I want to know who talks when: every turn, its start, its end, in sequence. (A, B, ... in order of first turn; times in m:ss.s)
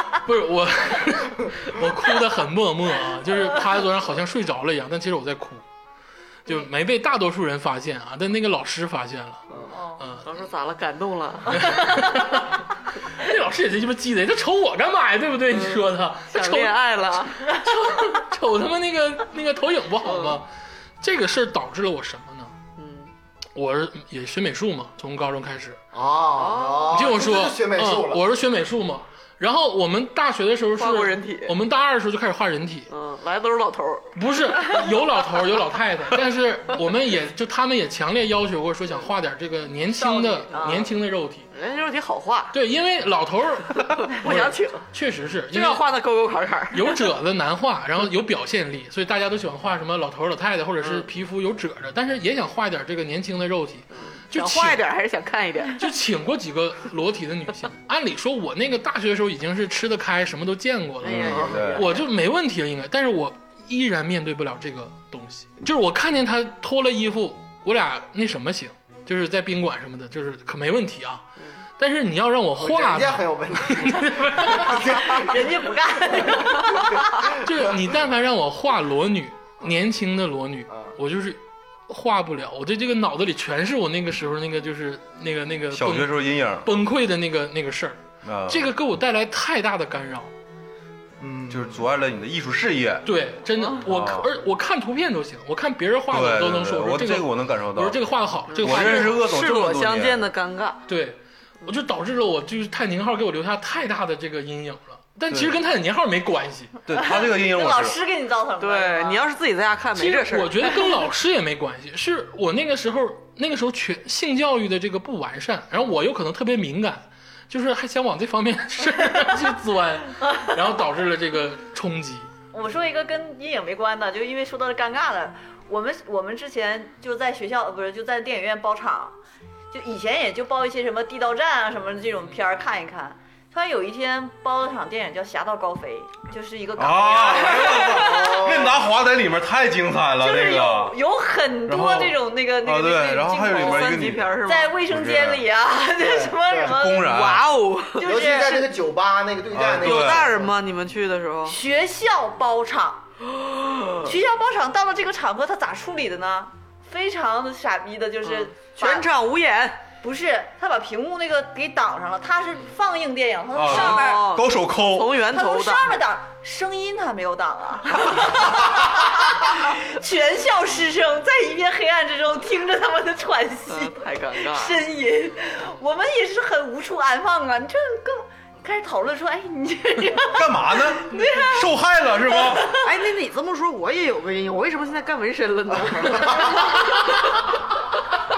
0:00.1-0:05.6 A
0:06.4-0:09.4 A
0:09.7-0:10.0 B
0:10.0-0:10.2 A
0:10.2-0:12.0 C
0:11.5-0:16.7 A
0:15.5-0:17.4 C
0:17.4-0:20.5 A
0:20.0-0:20.4 C
0:21.0-0:22.5 A
0:22.8-0:23.1 C
0:23.5-0:25.8 A
0:25.9-0:28.2 D
0:26.3-0:27.0 C
0:26.9-0:32.9 A
0:30.8-0:31.5 C
0:32.9-0:34.1 C
0:34.1-0:41.5 A
0:39.9-0:40.9 B
0:40.5-0:40.9 C
0:41.5-0:42.6 C
0:42.5-0:45.8 A
0:43.7-0:44.8 C
0:45.5-0:47.0 C
0:46.7-0:54.8 A
0:50.8-0:51.1 C
0:53.9-0:55.8 C
0:55.8-1:11.2 A
1:01.0-1:02.0 C
1:01.1-1:01.9 E
1:01.3-1:01.6 D
1:11.8-1:14.8 A
1:12.6-1:15.5 D
1:14.7-1:17.2 B
1:16.2-1:17.6 D
1:17.3-1:30.3 A
1:20.7-1:21.0 D
1:25.7-1:26.7 E
1:28.2-1:28.7 E
1:31.2-1:31.8 D
1:31.5-1:33.0 E
1:33.0-1:39.2 A
1:33.8-1:34.3 E
1:36.1-1:38.0 E
1:38.5-1:40.8 C
1:38.6-1:40.2 E
1:40.9-1:46.8 A
1:45.3-1:45.6 E
1:46.8-1:48.0 E
1:46.9-1:49.2 B
1:48.6-1:50.7 C
1:50.0-2:02.3 A
2:02.5-2:09.2 B
2:09.7-2:18.5 B
2:16.8-2:21.0 E
2:17.7-2:18.8 D
2:20.2-2:27.2 B
2:21.6-2:25.4 E
2:23.5-2:24.8 C
2:26.0-2:26.8 D
2:26.6-2:27.5 E
2:27.0-2:28.2 C
2:28.0-2:28.7 B
2:28.0-2:30.5 D
2:29.5-2:30.4 E
2:29.8-2:31.6 C
2:31.5-2:33.0 B
2:33.3-2:34.1 C
2:34.0-2:39.1 B
2:38.2-2:39.8 C
2:40.0-2:44.4 B
2:43.5-2:45.2 E
2:43.6-2:46.0 C
2:45.2-3:01.8 B
2:53.7-2:54.8 C
3:00.3-3:02.8 E
3:02.3-3:02.9 B
3:02.8-3:07.6 C
3:06.0-3:06.3 D